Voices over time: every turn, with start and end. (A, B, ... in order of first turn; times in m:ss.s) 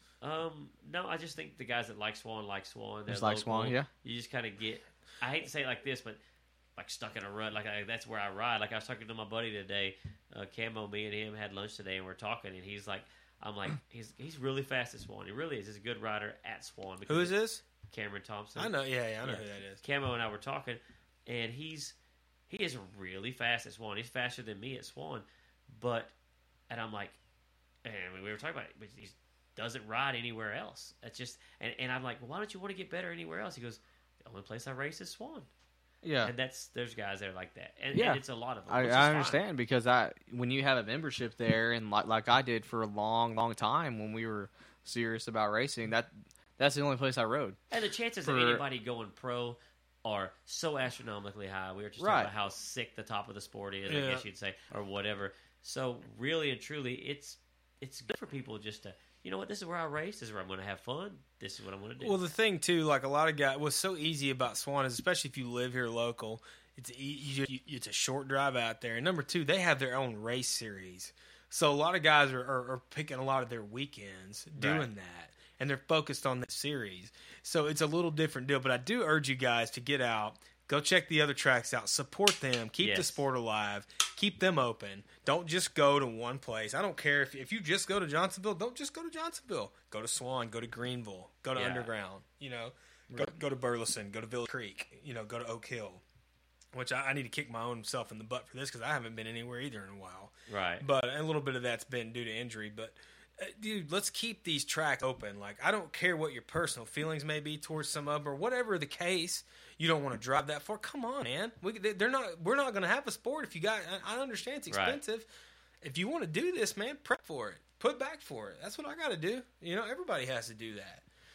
0:00.2-0:06.2 A
0:03.1-0:03.9 B
0:06.8-0:17.4 A
0:17.1-0:17.6 C
0:17.9-0:22.0 A
0:18.6-0:19.8 C
0:22.5-0:26.1 A
0:26.7-0:27.2 A
0:27.8-0:35.5 A
0:36.0-0:36.3 B
0:36.2-0:39.4 A
0:37.9-0:47.6 B
0:47.7-1:02.2 A
0:48.2-0:48.6 B
0:52.0-0:52.3 B
0:53.9-0:54.2 C
1:02.0-1:36.0 C
1:14.6-1:14.9 A
1:22.8-1:23.3 A
1:31.6-1:31.9 A
1:36.7-1:55.3 C
1:40.5-1:40.9 A
1:54.7-1:55.0 A
1:55.8-2:01.0 C